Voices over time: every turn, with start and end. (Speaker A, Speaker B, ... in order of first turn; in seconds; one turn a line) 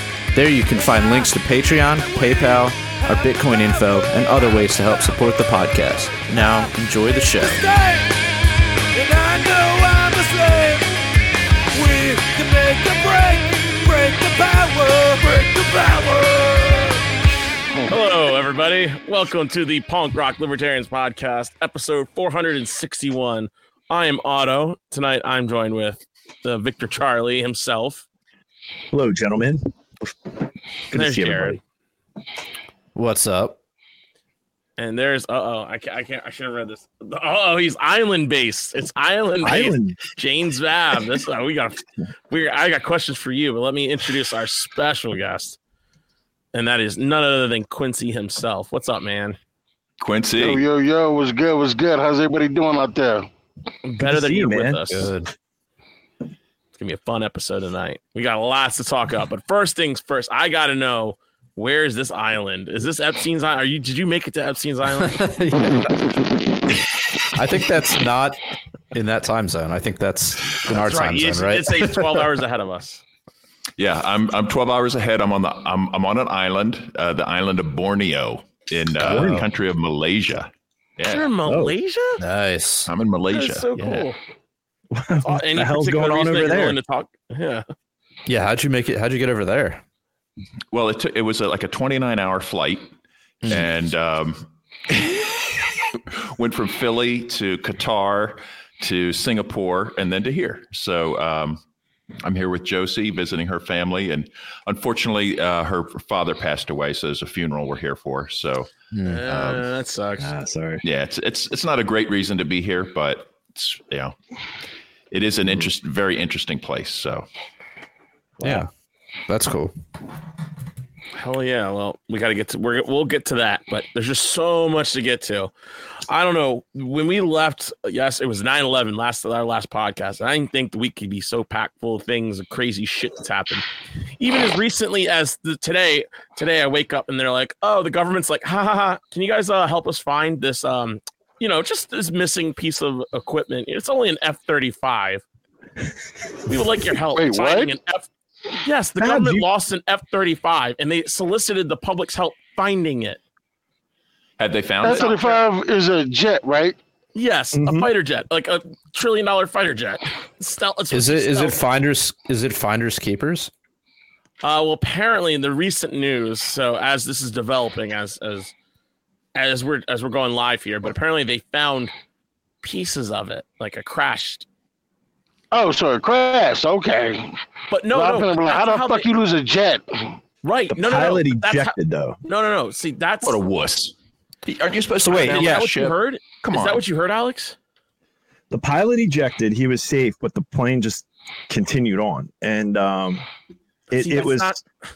Speaker A: 0.3-7.6
Speaker B: 0.6-4.5
Speaker B: 6.4-6.8
Speaker B: 7.3-8.2
Speaker B: 8.9-10.9
Speaker B: 11.7-17.0
Speaker C: 17.9-28.0
Speaker D: 28.9-30.1
Speaker D: 30.9-31.6
Speaker C: 30.9-31.6
Speaker A: 33.0-33.6
Speaker C: 34.8-45.6
Speaker D: 39.4-40.0
Speaker C: 46.5-49.4
Speaker E: 50.0-50.6
Speaker F: 50.4-53.3
Speaker C: 53.8-55.1
Speaker D: 54.0-55.1
Speaker A: 54.9-55.3
Speaker C: 56.8-65.2
Speaker A: 65.0-66.2
Speaker A: 67.3-68.4
Speaker A: 68.9-72.2
Speaker C: 70.7-73.0
Speaker E: 73.8-81.3
Speaker A: 79.0-79.5
Speaker D: 79.1-79.4
Speaker C: 81.1-82.2
Speaker D: 81.5-81.7
Speaker A: 82.2-82.9
Speaker E: 82.9-84.0
Speaker C: 83.3-84.2
Speaker D: 84.9-86.8
Speaker C: 85.2-87.7
Speaker A: 88.3-89.8
Speaker E: 90.7-92.9
Speaker A: 93.4-93.7
Speaker E: 93.5-95.2
Speaker E: 96.0-101.6
Speaker E: 102.2-109.7
Speaker A: 108.9-109.2
Speaker C: 109.0-110.3
Speaker D: 110.2-110.8
Speaker E: 110.8-114.2
Speaker E: 115.1-117.3
Speaker D: 118.4-118.7
Speaker A: 118.4-118.7
Speaker A: 119.3-119.7
Speaker C: 121.2-125.5
Speaker C: 126.1-133.7
Speaker C: 134.2-145.2
Speaker C: 146.5-148.1
Speaker F: 147.2-147.8
Speaker C: 148.6-153.2
Speaker D: 149.0-149.5
Speaker E: 154.4-155.2
Speaker F: 154.8-156.8
Speaker C: 154.8-155.4
Speaker C: 157.2-161.6
Speaker D: 157.5-157.9
Speaker A: 160.9-163.5
Speaker C: 164.4-168.5
Speaker C: 169.3-171.9
Speaker C: 172.6-174.4
Speaker F: 175.5-177.3
Speaker C: 177.7-179.1
Speaker F: 177.9-180.1
Speaker C: 180.4-183.4
Speaker D: 180.7-182.2
Speaker E: 183.2-183.9
Speaker E: 184.4-186.8
Speaker D: 185.0-185.5
Speaker A: 185.1-185.4
Speaker C: 185.2-187.6
Speaker D: 188.5-193.2
Speaker D: 193.9-194.6
Speaker C: 193.9-194.6